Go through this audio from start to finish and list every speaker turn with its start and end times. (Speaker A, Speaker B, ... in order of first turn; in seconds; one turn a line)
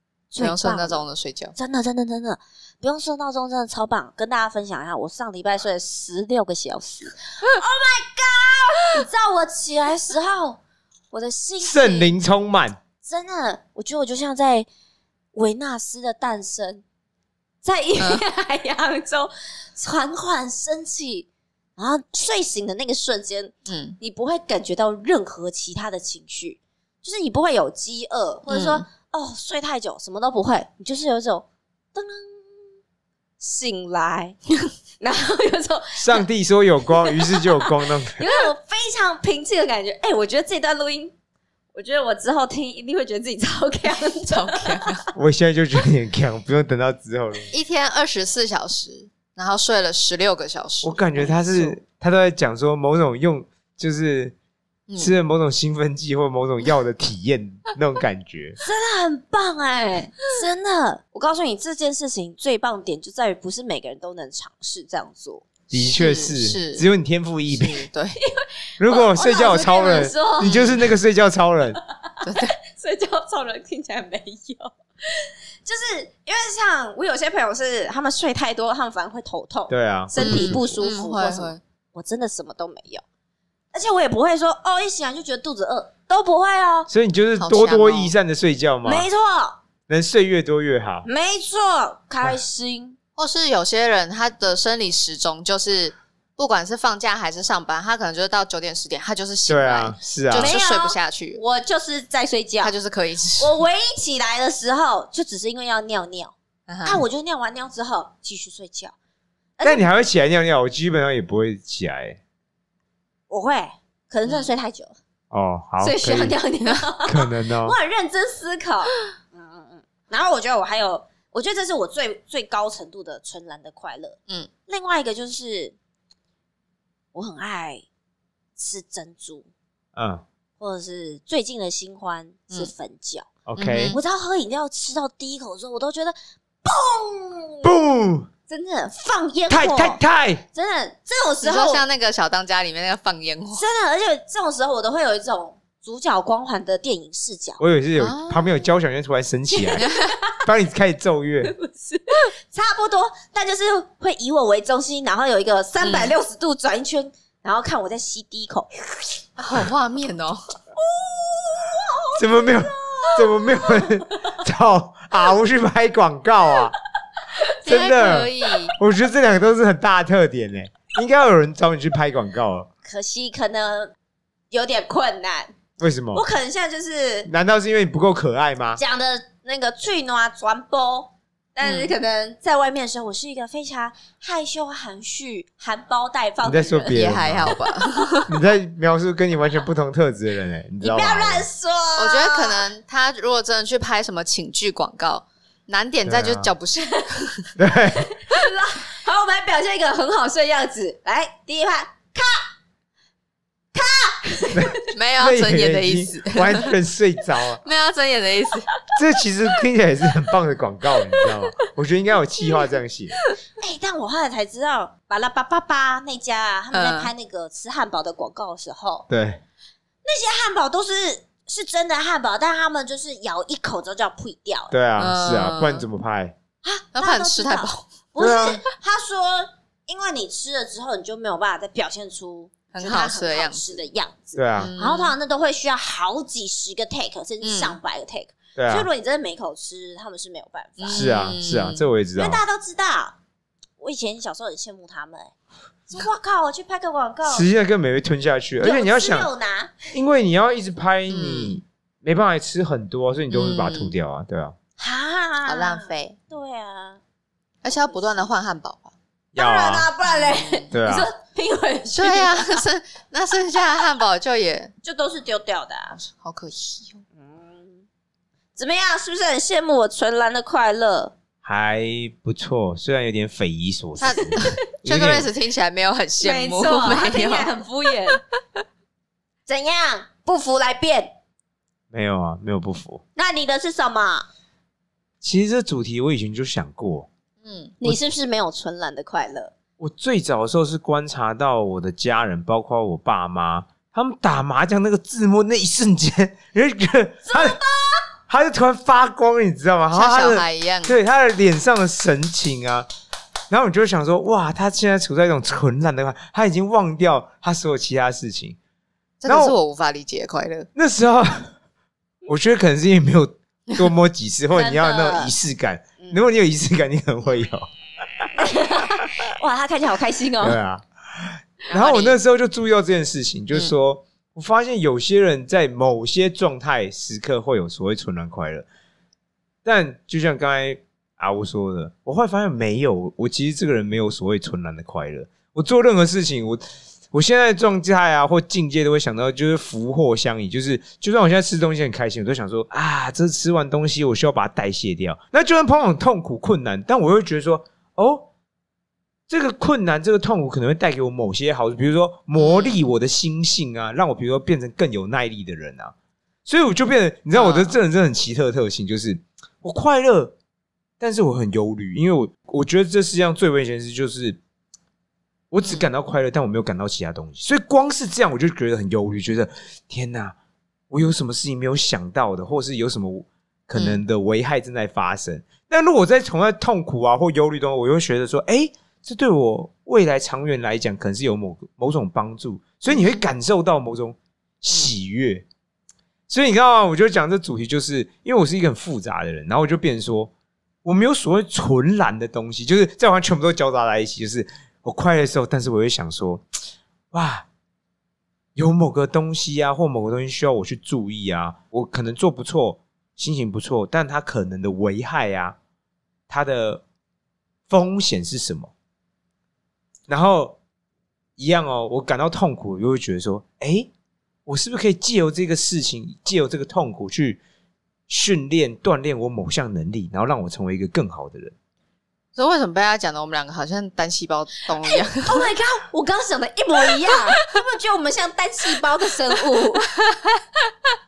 Speaker A: 0.3-1.0
Speaker B: 0.4-1.5
Speaker A: 1.6-10.6
Speaker A: 11.1-12.1
Speaker C: 11.6-12.8
Speaker A: 13.0-14.7
Speaker A: 15.3-16.8
Speaker A: 17.6-32.7
Speaker B: 23.7-24.0
Speaker B: 28.5-28.9
Speaker A: 33.4-34.4
Speaker A: 35.0-36.2
Speaker C: 36.0-38.2
Speaker A: 36.9-41.1
Speaker A: 41.7-44.9
Speaker B: 44.3-45.0
Speaker C: 45.1-47.5
Speaker B: 47.5-51.8
Speaker C: 50.8-54.3
Speaker B: 54.9-55.1
Speaker C: 55.0-58.6
Speaker A: 58.6-65.4
Speaker C: 65.7-67.9
Speaker B: 65.7-66.8
Speaker B: 67.5-68.2
Speaker A: 68.2-70.9
Speaker C: 68.8-71.8
Speaker A: 72.0-83.0
Speaker B: 72.2-72.5
Speaker C: 79.7-80.8
Speaker B: 80.2-81.6
Speaker A: 83.7-86.9
Speaker C: 86.9-89.1
Speaker B: 87.4-88.1
Speaker A: 88.8-89.6
Speaker C: 89.9-91.1
Speaker A: 91.0-93.0
Speaker B: 93.2-101.4
Speaker C: 99.5-100.5
Speaker A: 100.3-102.7
Speaker B: 102.6-103.5
Speaker A: 103.4-106.3
Speaker B: 106.7-107.0
Speaker A: 106.8-108.9
Speaker A: 109.6-109.8
Speaker C: 109.6-112.2
Speaker A: 113.3-115.0
Speaker C: 115.3-116.3
Speaker A: 115.8-125.7
Speaker C: 117.0-117.8
Speaker A: 127.1-127.8
Speaker A: 128.6-129.4
Speaker C: 129.9-130.2
Speaker A: 130.6-137.7
Speaker C: 133.5-133.9
Speaker B: 133.6-134.0
Speaker C: 137.6-138.3
Speaker A: 138.5-140.0
Speaker C: 139.5-140.4
Speaker A: 140.5-141.8
Speaker B: 141.4-143.6
Speaker A: 143.5-147.6
Speaker C: 147.6-149.9
Speaker B: 148.0-148.6
Speaker A: 149.7-150.4
Speaker B: 149.8-150.1
Speaker C: 150.4-151.5
Speaker A: 151.4-158.7
Speaker B: 155.8-156.1
Speaker B: 159.4-160.4
Speaker A: 160.8-164.1
Speaker C: 162.2-166.8
Speaker A: 167.3-168.2
Speaker B: 167.6-168.7
Speaker C: 167.7-172.7
Speaker A: 172.8-173.9
Speaker A: 174.5-175.5
Speaker C: 175.8-176.2
Speaker A: 176.1-177.3
Speaker C: 177.3-178.8
Speaker A: 178.8-188.1
Speaker B: 181.6-181.9
Speaker C: 186.4-187.5
Speaker B: 186.9-188.3
Speaker C: 188.3-191.5
Speaker A: 190.8-192.6
Speaker B: 191.9-197.5
Speaker C: 196.1-196.5
Speaker C: 197.6-198.1
Speaker A: 197.9-202.5
Speaker A: 203.7-204.8
Speaker C: 204.5-207.6
Speaker B: 204.9-206.7
Speaker B: 207.6-208.7
Speaker C: 208.9-213.1
Speaker A: 211.1-211.4
Speaker A: 213.6-219.1
Speaker B: 216.7-217.1
Speaker C: 219.1-219.4
Speaker A: 220.0-224.7
Speaker C: 224.7-226.3
Speaker B: 225.0-225.8
Speaker A: 226.6-241.1
Speaker B: 226.9-227.9
Speaker C: 228.2-228.6
Speaker B: 232.7-233.8
Speaker C: 234.3-234.7
Speaker B: 234.6-235.1
Speaker B: 237.4-237.8
Speaker C: 238.6-238.9
Speaker B: 240.8-241.8
Speaker C: 240.9-242.4
Speaker A: 242.2-243.2
Speaker A: 243.8-245.3
Speaker A: 245.9-247.5
Speaker C: 247.3-249.3
Speaker A: 248.6-249.9
Speaker C: 249.9-254.6
Speaker B: 251.1-251.6
Speaker B: 253.3-253.9
Speaker A: 254.8-257.0
Speaker B: 255.4-256.1
Speaker B: 257.6-258.9
Speaker A: 257.9-258.2
Speaker C: 259.3-259.9
Speaker A: 259.4-262.6
Speaker B: 260.0-260.7
Speaker C: 260.7-261.1
Speaker B: 261.9-264.7
Speaker A: 264.8-266.0
Speaker B: 265.9-267.0
Speaker A: 267.2-267.8
Speaker A: 268.6-271.1
Speaker C: 271.4-275.3
Speaker B: 274.0-277.5
Speaker A: 276.2-278.2
Speaker A: 279.5-281.1
Speaker C: 281.9-283.0
Speaker A: 283.1-284.3
Speaker C: 285.2-287.1
Speaker B: 287.4-287.7
Speaker A: 287.8-289.5
Speaker C: 289.8-297.6
Speaker A: 297.3-298.0
Speaker C: 298.3-302.9
Speaker B: 299.9-300.9
Speaker C: 303.5-308.6
Speaker B: 309.2-310.7
Speaker C: 309.3-309.5
Speaker C: 310.7-311.5
Speaker C: 312.2-318.4
Speaker A: 314.5-315.3
Speaker A: 318.4-320.6
Speaker C: 320.4-328.7
Speaker B: 321.7-322.2
Speaker C: 329.6-348.3
Speaker C: 349.3-355.9
Speaker B: 352.4-352.8
Speaker C: 356.4-360.3
Speaker B: 357.3-357.8
Speaker C: 361.0-364.4
Speaker C: 365.5-370.3
Speaker C: 370.9-385.4
Speaker B: 373.7-374.0
Speaker B: 382.9-383.3
Speaker C: 386.3-390.3
Speaker C: 390.8-396.4
Speaker C: 397.1-397.4
Speaker C: 398.6-405.6
Speaker C: 406.3-406.8
Speaker C: 407.7-408.7
Speaker C: 410.1-410.6
Speaker C: 411.4-413.9
Speaker C: 414.4-417.4
Speaker C: 418.1-421.5
Speaker B: 422.3-425.5
Speaker A: 424.8-429.9
Speaker B: 430.0-430.4